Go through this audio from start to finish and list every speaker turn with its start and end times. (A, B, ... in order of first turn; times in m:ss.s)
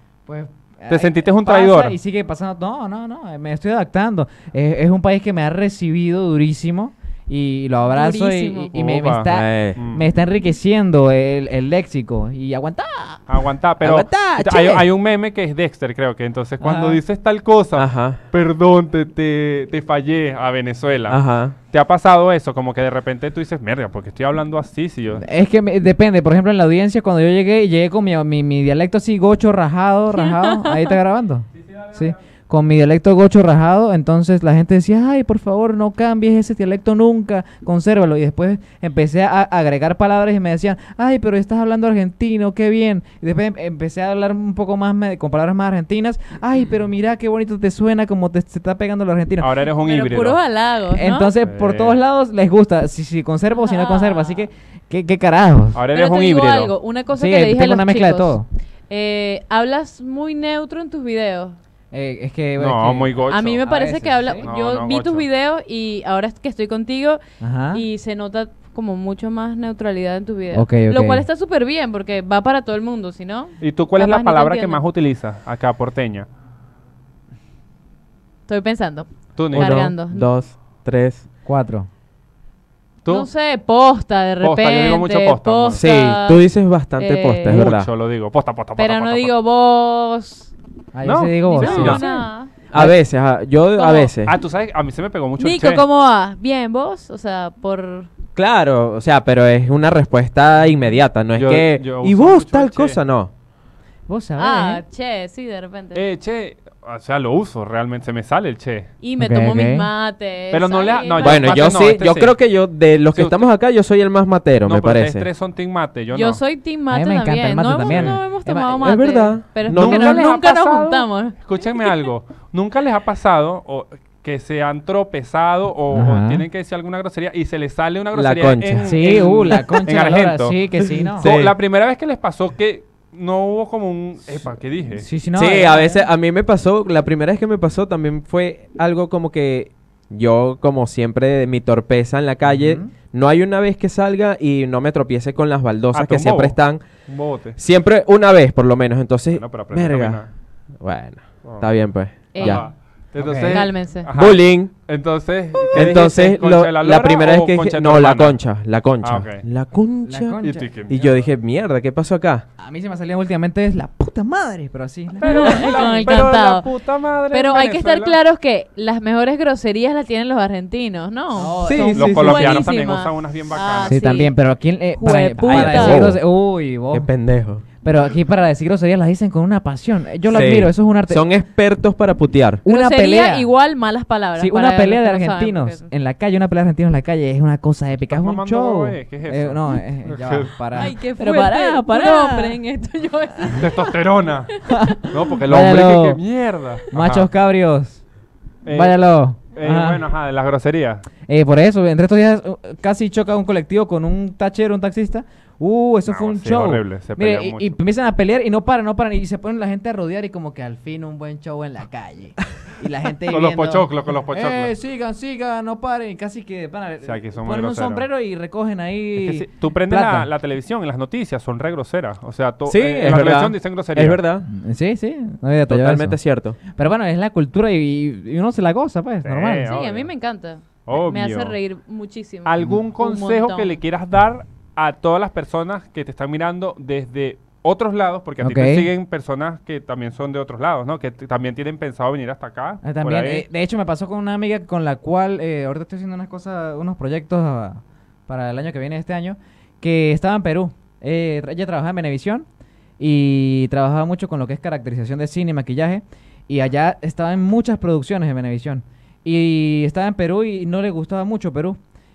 0:00.3-0:13.2 A
0:00.9-0:02.0 B
0:07.9-0:08.7 C
0:08.7-0:10.0 B
0:09.3-0:09.8 D
0:13.3-0:25.2 B
0:13.8-0:14.9 D
0:16.6-0:17.0 A
0:17.8-0:18.2 D
0:21.1-0:21.6 D
0:25.2-0:49.5 A
0:30.1-0:31.0 C
0:31.8-0:32.1 B
0:49.4-0:50.4 B
0:49.8-0:51.3 C
0:50.9-0:55.8 A
0:51.4-0:52.0 B
0:53.6-0:54.4 C
0:55.8-0:56.7 B
0:55.9-1:01.6 C
0:57.1-0:58.5 A
1:01.9-1:04.5 A
1:02.6-1:03.6 B
1:03.3-1:07.2 C
1:04.4-1:05.3 B
1:07.4-1:07.8 A
1:07.7-1:14.8 C
1:10.5-1:11.2 A
1:13.6-1:16.3 B
1:18.5-1:20.3 C
1:19.4-1:19.9 B
1:19.5-1:21.2 D
1:21.5-1:21.9 A
1:23.1-1:26.4 C
1:24.4-1:25.8 B
1:25.7-1:27.9 D
1:27.0-1:27.7 C
1:27.5-1:29.3 B
1:28.8-1:30.5 C
1:30.9-1:33.0 A
1:31.0-1:32.0 B
1:31.5-1:32.5 C
1:31.7-1:32.0 D
1:32.7-1:34.4 D
1:33.8-1:34.1 C
1:34.2-1:35.8 B
1:35.4-1:38.1 C
1:38.4-1:43.3 D
1:41.4-1:43.0 B
1:44.1-1:44.8 A
1:44.4-1:46.0 C
1:45.9-1:48.9 B
1:49.0-1:51.9 C
1:49.2-1:49.9 A
1:50.5-1:52.3 B
1:51.2-1:55.3 D
1:53.1-1:53.4 B
1:54.6-1:56.4 B
1:56.1-2:01.9 C
1:56.9-1:58.8 A
1:57.8-1:58.2 B
1:58.8-2:00.2 D
1:59.7-2:10.6 B
2:05.9-2:06.4 A
2:08.1-2:09.0 D
2:08.8-2:11.3 A
2:11.2-2:11.6 D
2:11.2-2:15.1 B
2:14.9-2:16.0 A
2:15.4-2:26.8 D
2:22.4-2:22.9 A
2:25.9-2:27.6 B
2:27.6-2:30.2 D
2:29.3-2:30.3 B
2:30.8-2:32.6 D
2:31.4-2:31.7 B
2:32.3-2:32.6 C
2:32.4-2:38.4 B
2:33.2-2:33.6 A
2:33.4-2:34.1 C
2:34.1-2:34.7 D
2:35.7-2:42.4 D
2:39.0-2:39.4 B
2:40.1-2:40.7 A
2:40.4-2:41.3 B
2:42.6-2:46.3 A
2:45.2-2:48.2 B
2:45.2-2:46.7 C
2:47.3-2:54.4 C
2:51.4-2:52.3 A
2:51.6-2:52.6 D
2:51.9-2:54.1 B
2:53.9-2:57.1 A
2:54.9-2:56.1 C
2:55.4-2:56.2 D
2:56.9-2:57.6 D
2:57.8-3:01.3 A
3:00.3-3:02.6 D
3:02.6-3:03.5 A
3:02.6-3:05.8 C
3:04.4-3:12.6 A
3:08.1-3:10.6 B
3:10.8-3:14.7 C
3:13.5-3:14.5 B
3:14.6-3:16.2 A
3:15.1-3:17.3 B
3:16.9-3:18.0 A
3:18.6-3:21.0 B
3:18.7-3:20.0 A
3:21.3-3:40.3 A
3:26.1-3:27.8 B
3:33.3-3:34.7 B
3:37.0-3:38.0 B
3:39.2-3:44.2 B
3:42.7-3:44.4 D
3:44.5-3:49.7 A
3:45.7-3:46.6 D
3:49.2-3:50.1 B
3:49.6-3:53.8 C
3:50.9-3:51.6 B
3:52.4-4:03.4 B
3:58.4-3:58.9 A
4:02.8-4:12.5 A
4:13.0-4:21.8 A